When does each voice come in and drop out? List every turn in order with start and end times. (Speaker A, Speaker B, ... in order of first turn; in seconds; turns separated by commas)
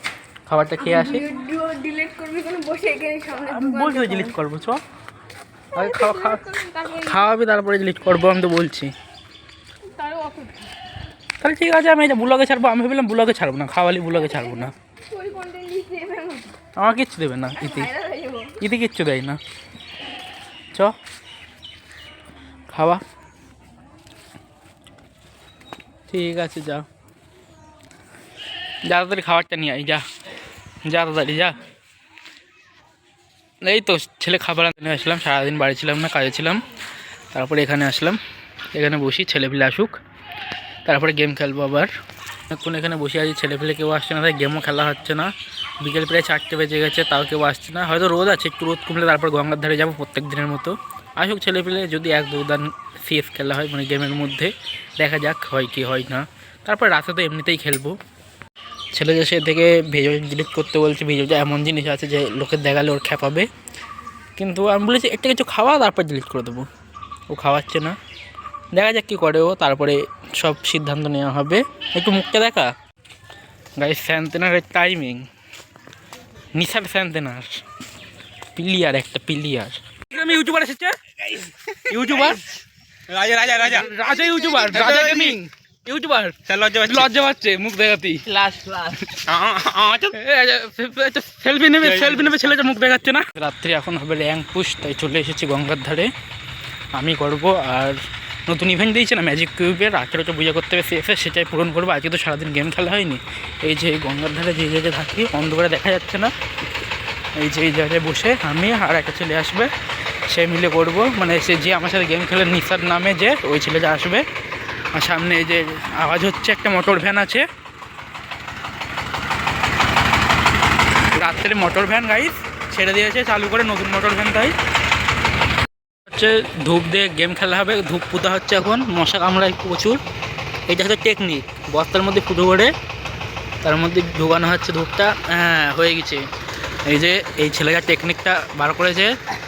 Speaker A: 0.5-1.3, Speaker B: 0.8-4.4, Speaker A: 3.4-4.8, Speaker B: 5.7-7.3, Speaker A: 5.7-8.9, Speaker B: 9.8-10.7, Speaker A: 11.4-14.7, Speaker B: 14.3-16.6, Speaker A: 16.8-17.9, Speaker B: 17.6-18.6, Speaker A: 18.6-19.4, Speaker A: 22.7-23.0, Speaker A: 26.1-26.9, Speaker A: 28.9-30.0, Speaker A: 30.8-31.6, Speaker A: 33.6-36.6, Speaker A: 37.3-38.2, Speaker A: 38.7-40.0, Speaker A: 40.8-41.9, Speaker A: 42.5-58.0, Speaker A: 58.9-63.5, Speaker A: 64.4-66.7, Speaker A: 67.3-68.0, Speaker A: 68.7-72.7, Speaker A: 73.8-75.3, Speaker A: 76.5-77.6, Speaker A: 78.5-82.5, Speaker C: 82.0-82.3, Speaker C: 83.1-83.9, Speaker A: 83.5-96.1, Speaker C: 84.6-85.4, Speaker C: 86.5-87.1, Speaker C: 89.2-90.0, Speaker C: 91.8-92.5, Speaker A: 96.9-106.3, Speaker A: 107.3-109.7, Speaker A: 110.3-114.2, Speaker A: 114.9-117.5, Speaker A: 121.1-124.5, Speaker A: 126.1-130.0, Speaker A: 130.7-132.7, Speaker A: 133.6-136.3, Speaker A: 136.8-139.2